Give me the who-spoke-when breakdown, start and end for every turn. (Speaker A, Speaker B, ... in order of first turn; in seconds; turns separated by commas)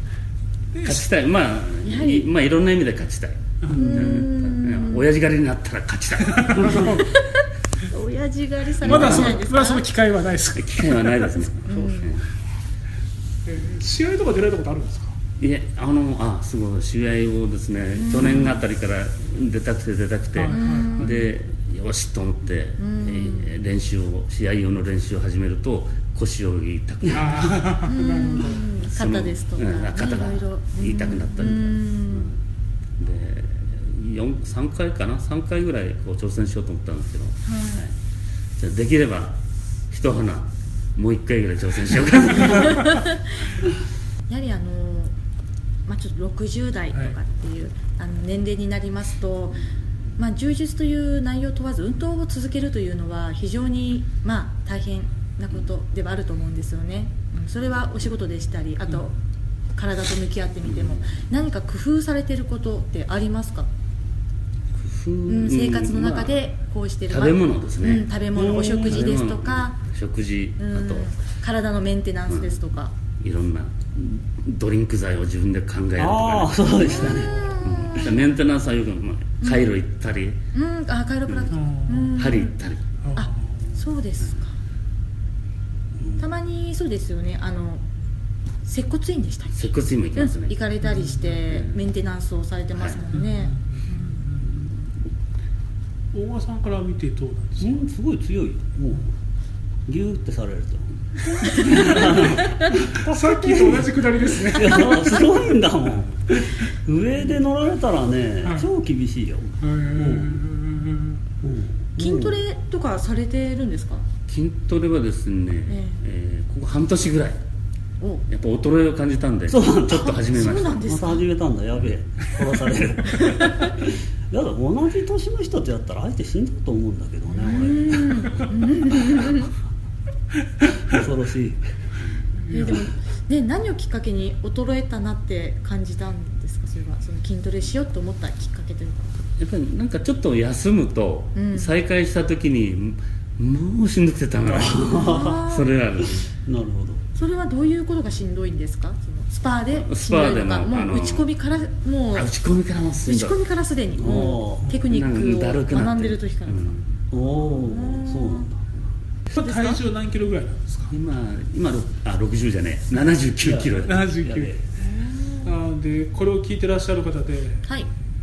Speaker A: 0.7-1.0, Speaker B: 0.8-7.0, Speaker C: 1.8-2.3, Speaker A: 3.6-4.2, Speaker C: 3.7-5.0, Speaker A: 6.3-7.0, Speaker C: 6.8-9.9, Speaker B: 8.8-9.5, Speaker A: 8.8-11.3, Speaker B: 10.6-12.3, Speaker C: 11.6-12.2, Speaker A: 13.4-15.2, Speaker B: 15.4-27.6, Speaker C: 17.9-18.5, Speaker A: 18.2-18.5, Speaker A: 20.4-21.1, Speaker C: 20.5-21.3, Speaker C: 22.8-23.6, Speaker A: 27.1-28.6, Speaker C: 27.8-32.3, Speaker B: 28.8-32.4, Speaker B: 33.0-37.9, Speaker C: 37.4-37.8, Speaker B: 38.6-39.4, Speaker B: 39.9-43.0, Speaker C: 42.4-43.4, Speaker C: 44.3-45.1, Speaker C: 45.9-49.6, Speaker A: 46.9-47.2, Speaker C: 50.2-59.1, Speaker C: 59.8-63.7, Speaker B: 60.6-61.2, Speaker B: 64.8-66.3, Speaker C: 65.3-69.8, Speaker B: 67.1-68.1, Speaker D: 68.3-69.1, Speaker B: 68.7-71.1, Speaker C: 70.6-72.9, Speaker B: 72.3-72.6, Speaker B: 73.2-80.4, Speaker D: 76.0-77.5, Speaker C: 76.8-78.2, Speaker C: 79.4-79.7, Speaker C: 80.5-82.5, Speaker B: 81.3-81.5, Speaker A: 81.5-82.2, Speaker B: 82.1-82.8, Speaker A: 83.0-83.8, Speaker C: 83.1-84.5, Speaker C: 86.2-87.8, Speaker C: 88.6-94.2, Speaker B: 89.5-90.6, Speaker A: 90.8-91.4, Speaker B: 91.5-91.7, Speaker B: 92.7-93.1, Speaker A: 93.1-94.5, Speaker A: 96.1-97.8, Speaker D: 97.6-99.1, Speaker D: 99.9-100.9, Speaker A: 101.3-105.5, Speaker C: 101.4-102.7, Speaker D: 101.5-110.4, Speaker A: 109.6-111.2, Speaker D: 111.4-112.4, Speaker C: 112.0-114.0, Speaker B: 114.3-117.4, Speaker C: 115.7-116.0, Speaker B: 118.3-120.8, Speaker D: 119.5-120.2, Speaker C: 119.9-121.2, Speaker D: 120.8-128.5, Speaker C: 123.1-123.7, Speaker C: 127.3-129.5, Speaker D: 130.8-131.6, Speaker B: 132.0-132.3, Speaker A: 132.4-132.8, Speaker C: 132.5-139.1, Speaker B: 139.4-146.3, Speaker C: 141.3-141.7, Speaker D: 144.4-145.4, Speaker C: 144.9-145.7, Speaker D: 146.0-147.0, Speaker C: 147.1-152.3, Speaker B: 149.7-151.3, Speaker B: 152.1-153.4, Speaker C: 153.1-156.8, Speaker D: 153.9-154.8, Speaker B: 154.8-156.9, Speaker D: 157.1-158.7, Speaker C: 157.5-158.5, Speaker A: 159.3-160.9, Speaker C: 159.3-159.8, Speaker B: 160.9-164.1, Speaker D: 163.4-164.6, Speaker A: 163.8-164.5, Speaker C: 164.8-165.5, Speaker A: 165.4-167.7